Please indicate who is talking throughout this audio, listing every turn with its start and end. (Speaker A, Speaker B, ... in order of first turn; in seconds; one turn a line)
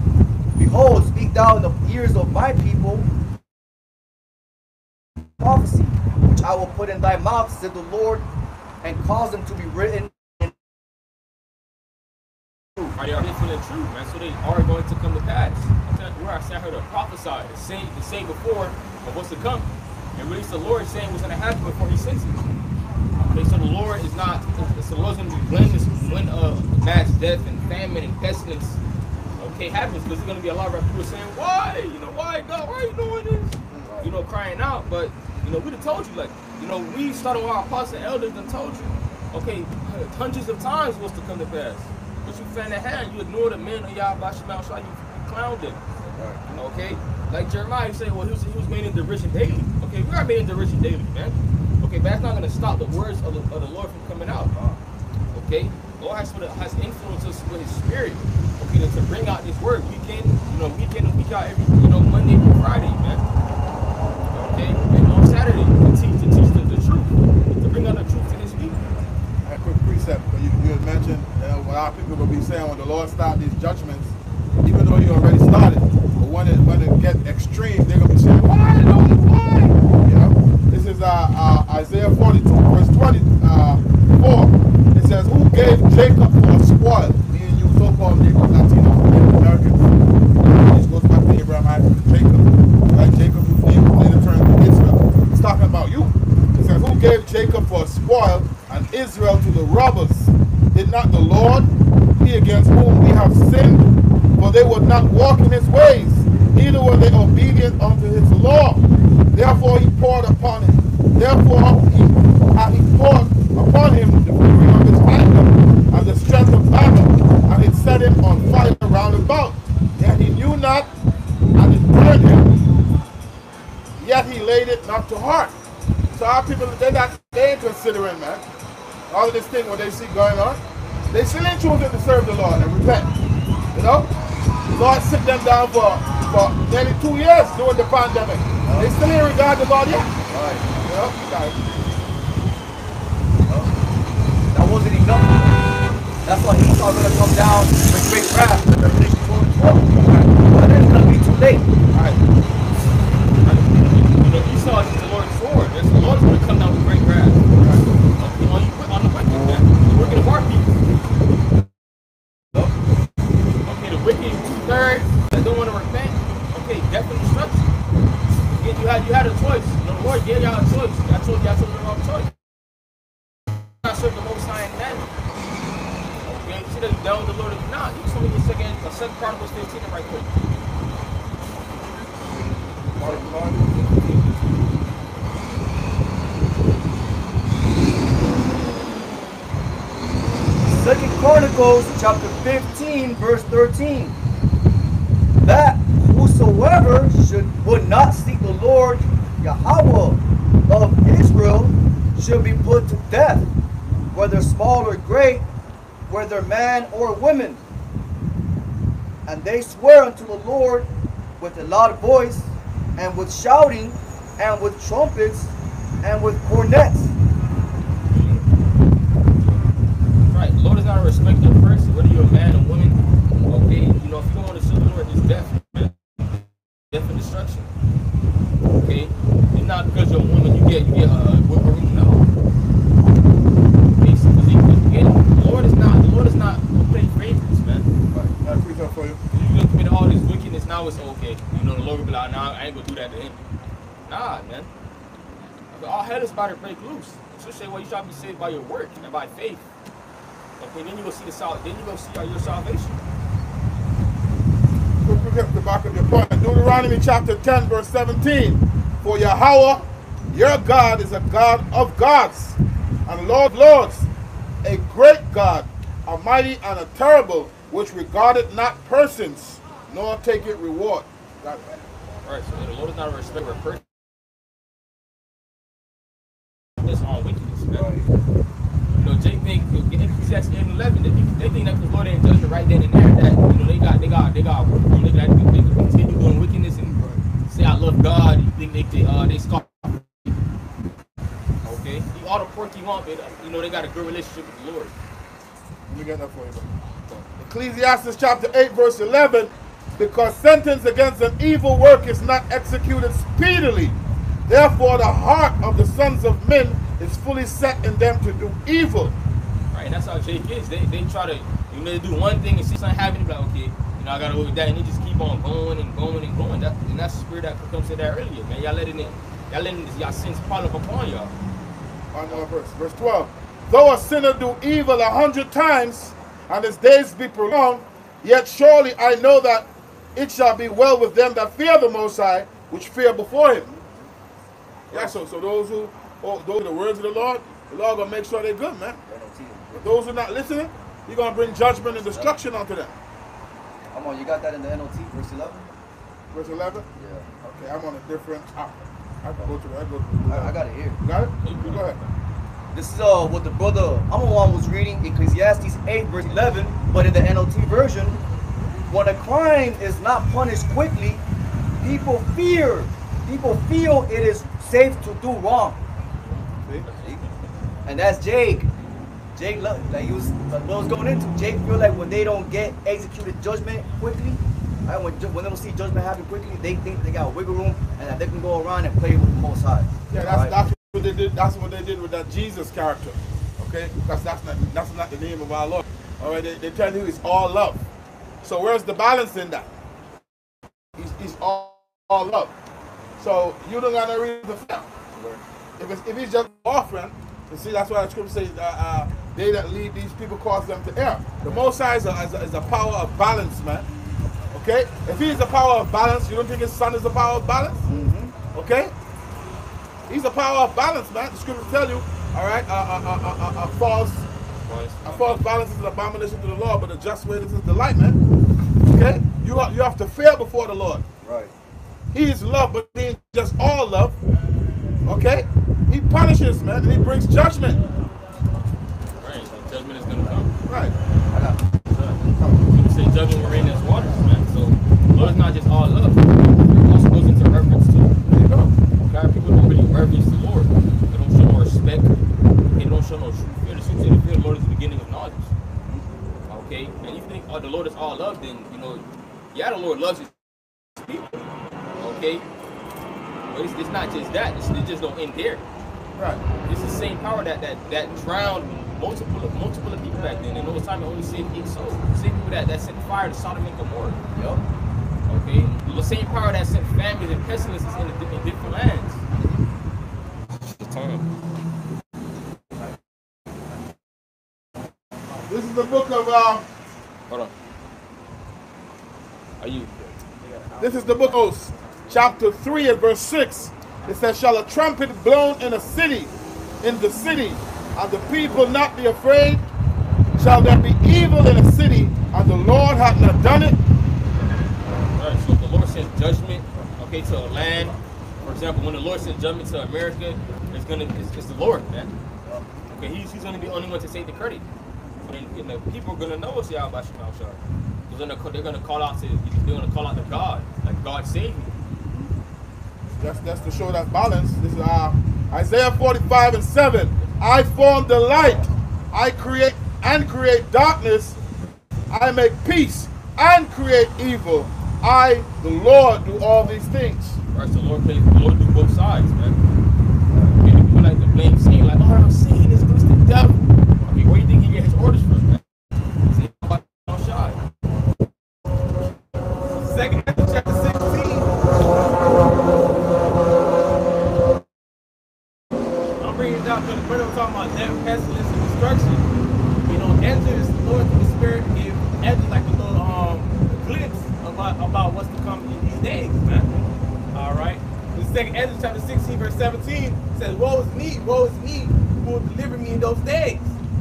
Speaker A: 0.6-3.1
Speaker A: 5.4-8.2
Speaker A: 8.8-10.5
Speaker B: 12.9-22.4
Speaker B: 23.3-28.8
Speaker B: 29.4-45.8
Speaker A: 33.8-34.1
Speaker A: 46.1-46.4
Speaker B: 46.5-54.5
Speaker A: 54.5-54.8
Speaker B: 55.3-63.2
Speaker B: 64.3-68.9
Speaker C: 69.4-74.1
Speaker C: 74.6-89.9
Speaker C: 90.4-101.7
Speaker C: 102.2-120.9
Speaker C: 121.5-122.5
Speaker C: 124.0-125.5
Speaker C: 126.1-128.4
Speaker C: 129.1-133.1
Speaker C: 133.7-134.1
Speaker C: 134.7-140.1
Speaker A: 138.6-138.9
Speaker A: 140.3-140.7
Speaker C: 140.8-141.6
Speaker A: 143.4-143.7
Speaker A: 144.5-145.6
Speaker A: 146.2-151.7
Speaker C: 151.9-152.2
Speaker B: 153.4-157.4
Speaker C: 157.6-157.9
Speaker B: 158.2-160.7
Speaker B: 163.6-167.7
Speaker B: 168.5-172.3
Speaker B: 173.8-175.1
Speaker B: 176.2-180.3
Speaker C: 182.9-183.6
Speaker A: 190.6-194.2
Speaker A: 195.4-203.5
Speaker A: 204.1-205.4
Speaker A: 206.1-207.6
Speaker A: 209.2-210.9
Speaker A: 211.4-217.1
Speaker B: 218.1-218.5
Speaker B: 219.3-219.6
Speaker B: 220.3-225.9
Speaker B: 226.9-227.7
Speaker B: 228.8-232.3
Speaker B: 234.0-237.9
Speaker C: 238.4-239.2
Speaker B: 239.3-243.4
Speaker B: 244.1-244.7
Speaker B: 245.7-249.7
Speaker B: 250.6-253.0
Speaker C: 255.0-264.1
Speaker C: 264.6-271.7
Speaker B: 272.2-273.8
Speaker B: 276.8-277.9
Speaker A: 277.7-278.1
Speaker B: 278.9-286.9
Speaker C: 286.9-287.2
Speaker B: 287.5-289.9
Speaker B: 291.6-294.9
Speaker C: 295.9-296.7
Speaker C: 297.4-304.0
Speaker C: 304.5-309.1
Speaker B: 309.7-321.3
Speaker C: 322.1-333.7
Speaker A: 333.7-334.1
Speaker C: 334.9-339.0
Speaker A: 339.1-339.9
Speaker C: 339.7-342.9
Speaker A: 341.9-342.3
Speaker A: 343.9-345.6
Speaker C: 346.3-346.9
Speaker A: 346.9-347.3
Speaker C: 347.4-352.0
Speaker A: 350.3-351.0
Speaker B: 351.4-352.1
Speaker A: 352.7-358.2
Speaker A: 358.9-361.2
Speaker A: 361.8-365.8
Speaker B: 366.4-367.5
Speaker A: 367.9-368.7
Speaker A: 369.3-380.5
Speaker C: 380.1-387.8
Speaker C: 388.4-389.7
Speaker C: 390.9-392.5
Speaker C: 393.2-403.9
Speaker C: 404.5-407.9
Speaker A: 407.9-408.4
Speaker C: 408.5-408.9
Speaker C: 410.1-414.2
Speaker B: 414.6-415.5
Speaker C: 415.0-418.2
Speaker C: 418.8-421.0
Speaker A: 421.2-421.5
Speaker C: 422.1-424.1
Speaker C: 425.0-427.8
Speaker B: 429.2-430.5
Speaker C: 430.6-430.9
Speaker A: 431.3-431.6
Speaker B: 431.9-438.3
Speaker C: 432.3-432.6
Speaker C: 438.2-438.7
Speaker B: 439.0-442.2
Speaker B: 442.7-445.5
Speaker B: 446.5-450.3
Speaker B: 452.0-452.4
Speaker B: 453.5-455.6
Speaker C: 456.1-456.4
Speaker B: 456.6-464.2
Speaker A: 464.3-464.6
Speaker B: 465.3-469.2
Speaker B: 470.7-471.2
Speaker C: 475.4-476.7
Speaker B: 479.6-480.1
Speaker C: 480.8-489.6
Speaker C: 490.3-493.8
Speaker B: 495.1-502.1
Speaker A: 502.4-502.8
Speaker B: 502.9-504.6
Speaker B: 505.2-511.7
Speaker C: 513.2-521.4
Speaker C: 522.1-527.4
Speaker B: 527.5-529.6
Speaker B: 530.6-535.6
Speaker B: 536.3-537.6
Speaker D: 539.8-541.5
Speaker D: 546.2-549.2
Speaker D: 549.8-563.7